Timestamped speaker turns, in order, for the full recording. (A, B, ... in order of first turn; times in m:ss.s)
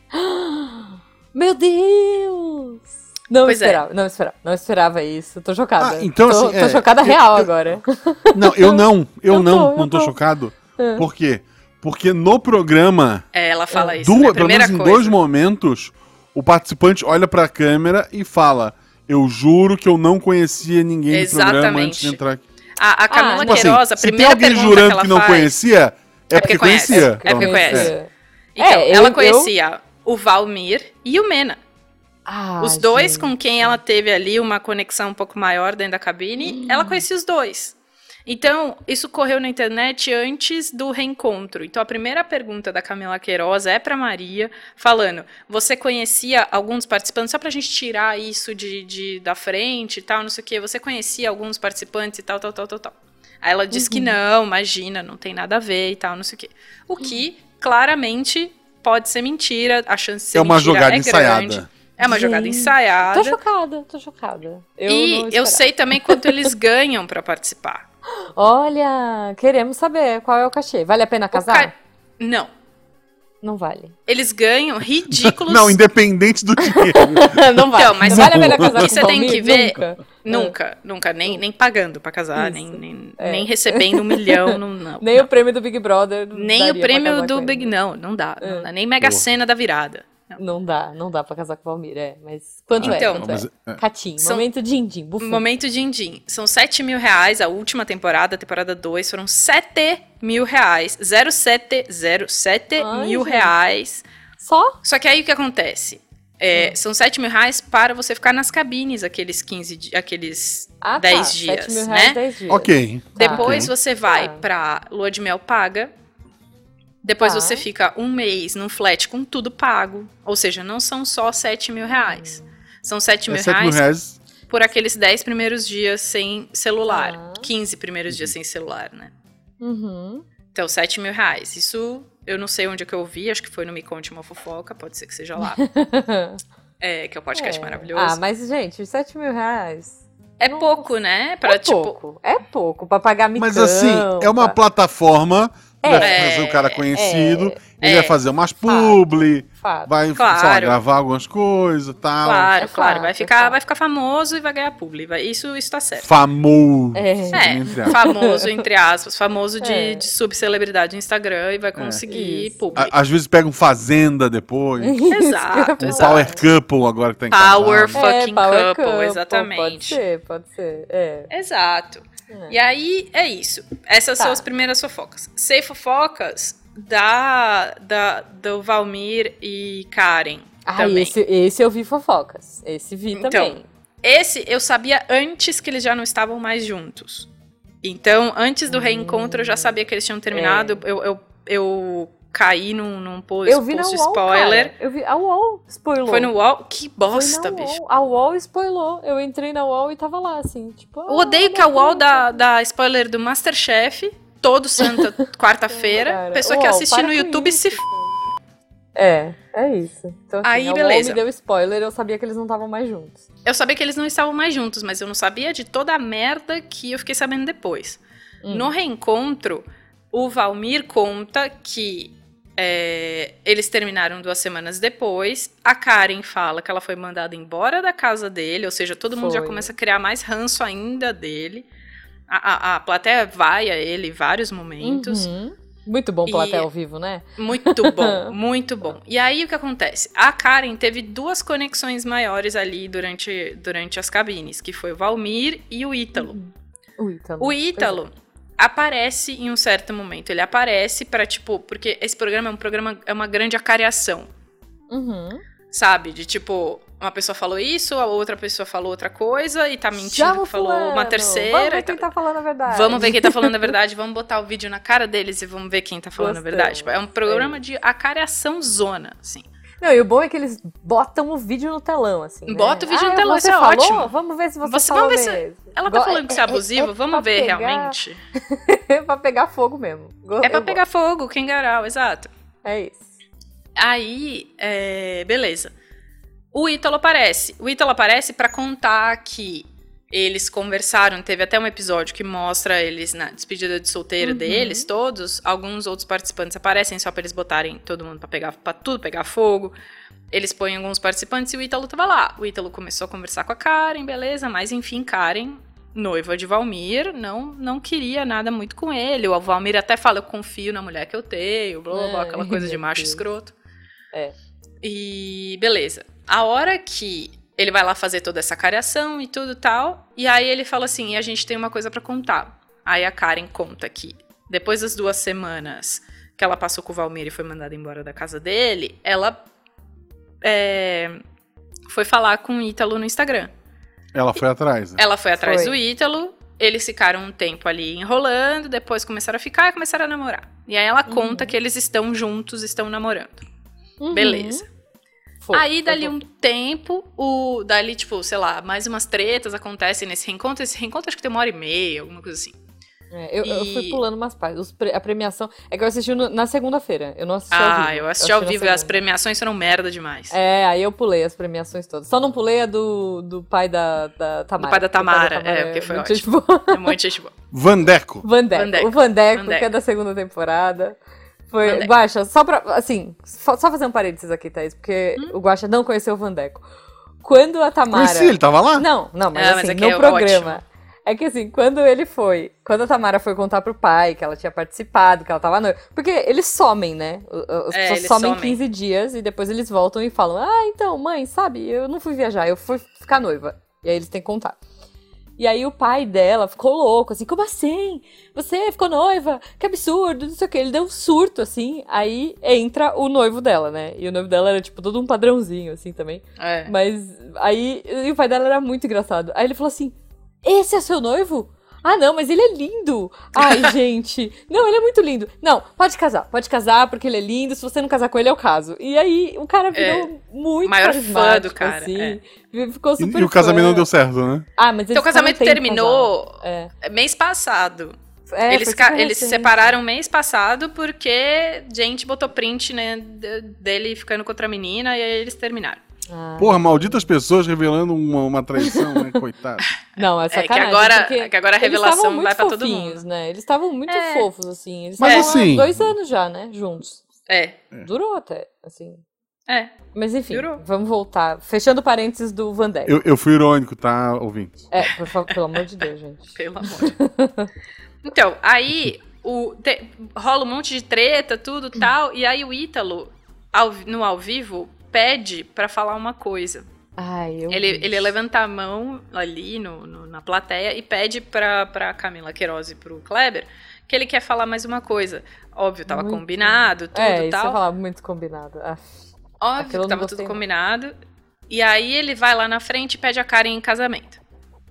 0:00.1-0:10.1 A
0:03.4-0:03.8 B
0:05.8-0:07.5 C
0:08.3-0:13.2 C
0:10.8-0:11.0 A
0:13.3-0:15.1 B
0:13.7-0:14.0 A
0:14.0-0:22.4 C
0:21.1-0:22.2 B
0:22.8-0:25.5 B
0:23.1-0:23.7 A
0:23.4-0:27.9 C
0:26.4-0:28.0 B
0:26.4-0:29.5 A
0:28.6-0:31.6 B
0:32.2-0:33.8 A
0:32.6-1:03.4 B
0:36.4-0:37.0 A
0:53.7-0:54.1 A
1:00.3-1:01.7 C
1:02.0-1:06.5 A
1:04.9-1:07.8 B
1:08.4-1:11.7 A
1:11.3-1:12.5 B
1:13.4-1:13.9 A
1:14.1-1:15.8 B
1:15.1-1:17.4 C
1:16.6-1:20.5 A
1:17.7-1:25.3 B
1:18.0-1:19.1 C
1:22.4-1:27.7 A
1:26.3-1:30.4 B
1:28.4-1:28.7 A
1:30.4-1:35.4 A
1:32.8-1:33.3 B
1:32.8-1:33.8 C
1:34.2-1:34.4 B
1:35.2-1:44.0 B
1:42.8-1:43.5 A
1:44.4-1:44.8 A
1:44.8-1:52.2 B
1:50.8-1:54.4 A
1:52.5-1:53.7 C
1:53.2-1:55.9 B
1:57.0-2:03.8 B
1:57.2-1:57.6 A
2:01.9-2:02.4 A
2:03.3-2:04.2 C
2:04.5-2:09.1 B
2:06.9-2:07.5 A
2:09.6-2:10.2 A
2:10.5-2:15.6 B
2:15.4-2:16.4 A
2:16.8-2:18.2 B
2:17.3-2:20.9 A
2:20.4-2:22.0 B
2:21.4-2:24.6 A
2:23.4-2:32.5 C
2:25.8-2:26.2 A
2:26.0-2:26.8 B
2:26.9-2:27.6 A
2:27.8-2:28.2 B
2:28.6-2:29.9 A
2:30.2-2:30.8 B
2:32.2-2:36.1 B
2:32.6-2:33.6 A
2:36.0-2:38.0 C
2:36.9-2:38.6 A
2:37.3-2:42.9 B
2:39.6-2:40.0 A
2:41.8-2:42.0 C
2:42.1-2:42.8 A
2:42.8-2:45.0 C
2:44.8-2:46.4 A
2:45.1-2:46.3 B
2:45.8-2:48.0 C
2:47.3-2:50.0 B
2:48.0-2:51.3 A
2:51.3-3:01.1 B
2:52.3-2:52.6 A
2:54.2-2:54.4 A
3:00.6-3:03.6 A
3:03.1-3:07.3 B
3:07.8-3:14.7 B
3:08.7-3:09.7 A
3:10.3-3:10.8 A
3:13.4-3:16.3 A
3:16.1-3:17.7 B
3:17.1-3:22.4 A
3:21.1-3:27.8 B
3:24.8-3:25.1 A
3:25.7-3:28.1 A
3:28.9-3:33.2 A
3:30.4-3:31.2 B
3:33.4-3:51.6 B
3:38.4-3:38.7 A
3:49.1-3:49.7 A
3:52.3-3:55.3 B
3:54.8-3:58.3 A
3:56.3-3:56.7 B
3:57.4-4:06.4 B
4:06.2-4:08.0 A
4:07.4-4:14.3 B
4:14.9-4:15.4 A
4:15.7-4:22.1 B
4:19.9-4:23.7 A
4:22.7-4:29.4 B
4:26.2-4:27.6 A
4:29.8-4:40.8 A
4:32.5-4:34.1 B
4:34.6-4:38.2 B
4:40.4-4:42.3 B
4:42.6-4:43.1 A
4:43.8-4:45.7 B
4:46.5-4:59.7 B
4:54.2-4:54.9 A
5:00.3-5:13.5 B
5:11.9-5:13.2 A
5:14.8-5:29.4 B
5:30.4-5:31.2 B
5:31.9-5:33.5 B
5:34.1-5:35.0 C
5:35.0-5:43.4 B
5:35.4-5:35.8 A
5:41.1-5:41.5 A
5:44.0-5:44.6 A
5:44.1-5:44.6 B
5:45.4-5:46.2 A
5:45.5-5:52.6 B
5:53.1-5:59.0 A
5:53.4-5:54.0 B
5:57.5-6:00.3 B
6:00.3-6:07.0 A
6:04.6-6:07.3 B
6:07.5-6:08.2 C
6:08.2-6:11.0 A
6:08.5-6:09.7 B
6:11.5-6:16.6 A
6:11.6-6:11.9 B
6:17.2-6:34.6 A
6:17.9-6:18.8 C
6:19.3-6:20.6 B
6:27.7-6:28.6 B
6:35.4-7:03.8 A
6:46.4-6:46.7 B
6:53.4-6:53.7 B
6:59.7-7:00.1 B
7:00.6-7:02.2 B
7:03.0-7:04.4 C
7:04.6-7:06.7 A
7:04.9-7:07.9 B
7:08.3-7:09.6 A
7:08.5-7:15.8 B
7:16.1-7:17.1 A
7:16.4-7:19.6 C
7:18.6-7:19.0 A
7:20.0-7:27.0 A
7:20.3-7:23.0 B
7:23.9-7:24.3 B
7:25.0-7:25.9 C
7:25.0-7:25.3 B
7:27.3-7:27.6 B
7:27.8-7:29.0 A
7:29.5-7:29.7 B
7:29.9-7:33.0 A
7:30.3-7:30.6 B
7:32.8-7:34.6 C
7:34.7-7:37.5 A
7:36.3-7:37.0 B
7:38.0-7:46.6 B
7:47.0-7:48.1 A
7:47.5-7:57.6 B
7:55.9-7:58.9 A
7:59.4-8:00.9 B
7:59.6-8:00.4 A
8:01.5-8:04.2 B